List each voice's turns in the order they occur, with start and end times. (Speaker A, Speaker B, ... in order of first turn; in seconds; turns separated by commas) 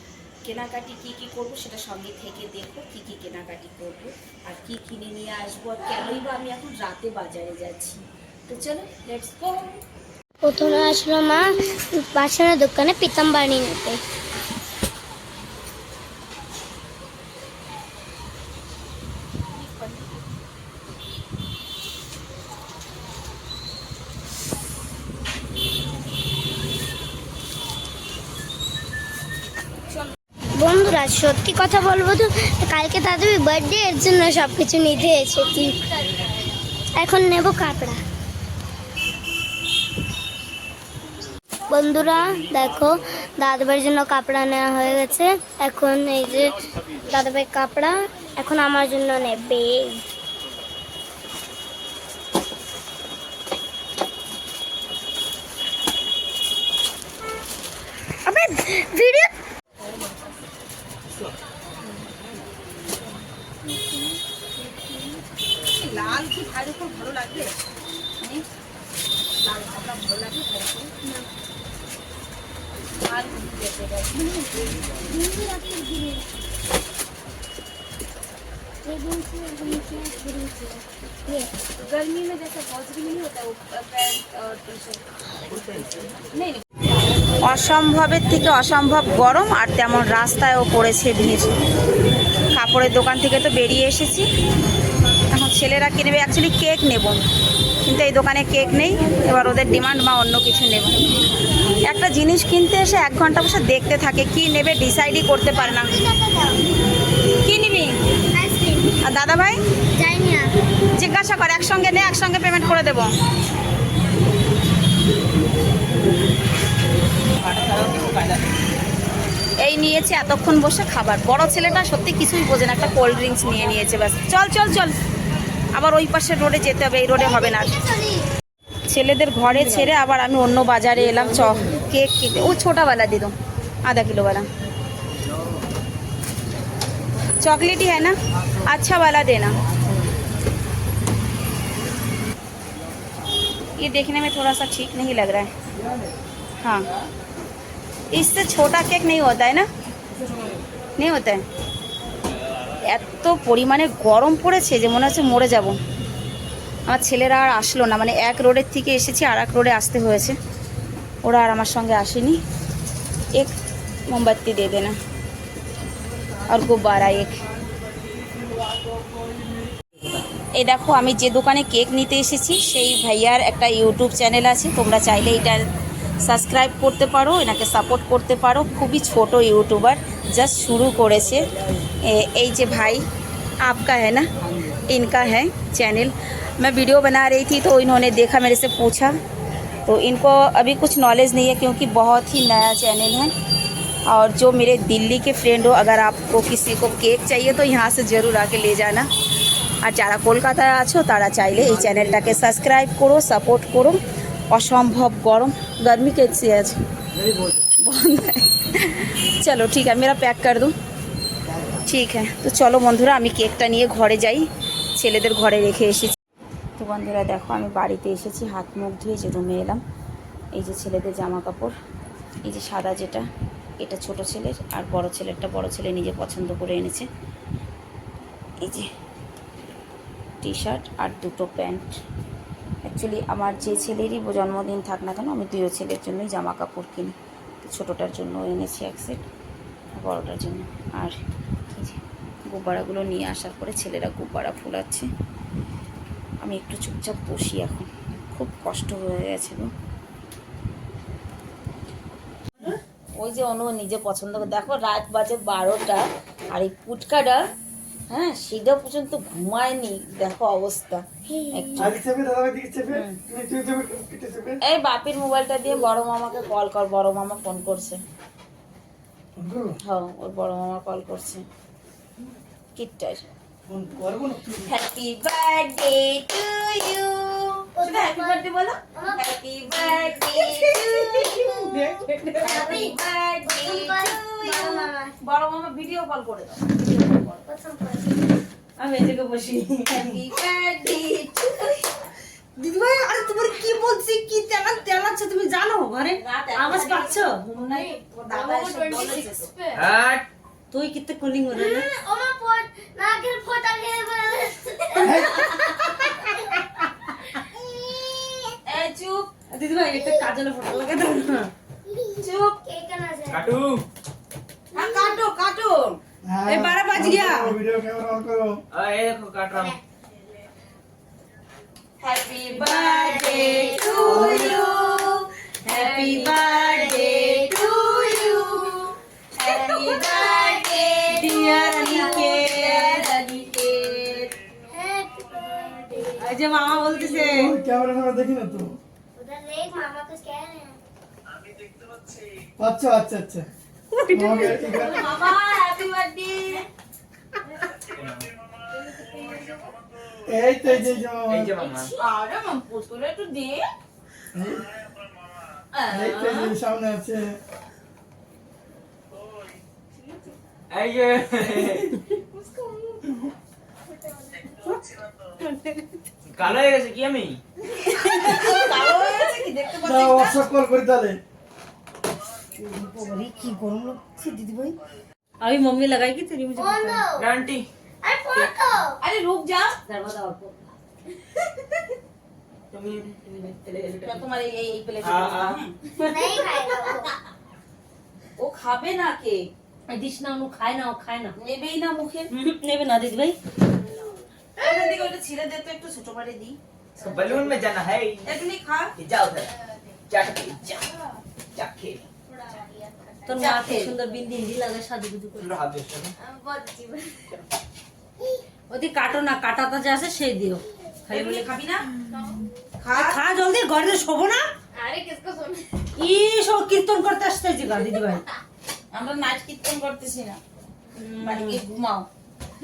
Speaker A: 0.4-9.8, Speaker B: 10.4-14.0, Speaker B: 30.5-35.9, Speaker B: 36.9-38.0, Speaker B: 41.7-50.0, Speaker B: 58.2-59.3, Speaker A: 65.7-67.5, Speaker A: 69.4-70.9, Speaker A: 73.0-74.3, Speaker B: 75.0-76.2, Speaker B: 78.8-81.5, Speaker A: 87.4-91.6, Speaker A: 92.5-94.3, Speaker A: 95.3-97.2, Speaker A: 97.8-101.1, Speaker A: 101.8-105.9, Speaker B: 105.5-106.6, Speaker A: 107.4-108.0, Speaker B: 108.3-108.9, Speaker A: 109.0-109.6, Speaker B: 110.0-110.5, Speaker A: 111.0-113.1, Speaker C: 117.4-118.5, Speaker A: 119.6-124.9, Speaker A: 125.7-127.8, Speaker B: 127.1-128.3, Speaker A: 128.9-134.5, Speaker A: 137.4-139.5, Speaker A: 143.8-145.5, Speaker A: 148.1-149.7, Speaker A: 151.0-151.4, Speaker A: 152.8-155.8, Speaker A: 156.9-160.3, Speaker A: 161.2-162.4, Speaker A: 164.1-164.9, Speaker A: 166.5-167.4, Speaker D: 167.6-169.7, Speaker A: 170.6-175.7, Speaker A: 176.2-181.4, Speaker A: 182.0-183.0, Speaker A: 183.6-184.3, Speaker A: 184.9-189.1, Speaker A: 189.8-193.3, Speaker A: 194.1-199.1, Speaker A: 199.8-204.0, Speaker A: 204.5-206.8, Speaker A: 207.8-210.7, Speaker A: 211.8-214.4, Speaker A: 215.0-216.2, Speaker A: 216.8-219.8, Speaker A: 220.5-221.7, Speaker A: 222.4-223.2, Speaker A: 223.8-227.1, Speaker A: 228.6-228.9, Speaker A: 230.4-232.0, Speaker A: 232.8-239.2, Speaker A: 239.9-241.2, Speaker A: 241.7-245.1, Speaker A: 246.4-249.7, Speaker A: 253.2-257.4, Speaker A: 258.1-261.9, Speaker B: 261.3-261.9, Speaker D: 261.8-264.6, Speaker A: 262.9-263.2, Speaker A: 264.6-268.0, Speaker D: 269.4-269.8, Speaker A: 269.9-271.4, Speaker A: 272.8-273.2, Speaker D: 273.6-274.7, Speaker A: 274.6-281.6, Speaker B: 277.8-278.4, Speaker B: 278.9-279.2, Speaker B: 281.0-281.6, Speaker E: 281.7-282.4, Speaker B: 282.4-285.1, Speaker A: 282.4-287.4, Speaker B: 287.4-288.2, Speaker E: 288.8-290.2, Speaker A: 289.9-291.8, Speaker E: 292.6-297.4, Speaker A: 296.1-299.5, Speaker C: 299.7-300.2, Speaker E: 300.7-301.9, Speaker B: 301.5-306.8, Speaker B: 307.4-308.6, Speaker A: 308.6-309.3, Speaker E: 309.5-311.5, Speaker B: 309.9-310.3, Speaker B: 311.8-313.6, Speaker C: 313.3-313.8, Speaker B: 314.7-315.2, Speaker A: 314.7-316.0, Speaker D: 316.2-318.6, Speaker E: 316.5-317.6, Speaker C: 318.7-319.8, Speaker A: 322.0-334.3, Speaker B: 322.6-324.6, Speaker D: 324.1-324.5, Speaker E: 325.7-326.3, Speaker B: 329.4-333.0, Speaker E: 331.1-333.2, Speaker B: 334.7-336.3, Speaker E: 336.2-337.5, Speaker D: 337.3-338.8, Speaker B: 339.1-340.8, Speaker D: 342.6-343.5, Speaker E: 343.9-345.2, Speaker D: 344.1-345.1, Speaker A: 344.8-346.6, Speaker C: 347.9-348.3, Speaker D: 350.2-351.5, Speaker B: 350.7-351.1, Speaker C: 351.3-351.9, Speaker B: 351.6-351.9, Speaker A: 351.9-353.7, Speaker D: 354.3-354.6, Speaker A: 355.7-356.5, Speaker D: 355.9-357.4, Speaker C: 360.7-361.9, Speaker E: 365.4-365.8, Speaker C: 366.3-367.4, Speaker A: 367.7-370.4, Speaker D: 369.8-371.2, Speaker E: 372.6-374.8, Speaker E: 375.4-377.0, Speaker B: 376.6-377.3, Speaker C: 377.2-377.7, Speaker B: 378.0-379.0, Speaker A: 379.0-379.8, Speaker E: 379.9-380.6, Speaker C: 382.7-384.2, Speaker A: 384.0-386.5, Speaker C: 385.0-385.6, Speaker B: 386.0-387.1, Speaker A: 388.4-389.5, Speaker E: 389.9-391.3, Speaker A: 391.4-392.3, Speaker E: 392.3-393.4, Speaker A: 394.6-396.6, Speaker C: 397.0-398.3, Speaker A: 398.2-398.9, Speaker C: 399.0-399.5, Speaker C: 400.1-400.9, Speaker C: 401.5-402.1, Speaker B: 402.6-402.9, Speaker E: 403.2-405.5, Speaker A: 403.3-403.9, Speaker C: 405.4-406.1, Speaker B: 406.5-407.0, Speaker E: 408.7-411.5, Speaker A: 411.1-411.9, Speaker A: 412.8-413.2, Speaker E: 412.9-414.5, Speaker B: 414.9-415.2, Speaker E: 415.9-418.2, Speaker A: 418.9-420.4, Speaker E: 420.9-421.6, Speaker A: 421.2-422.1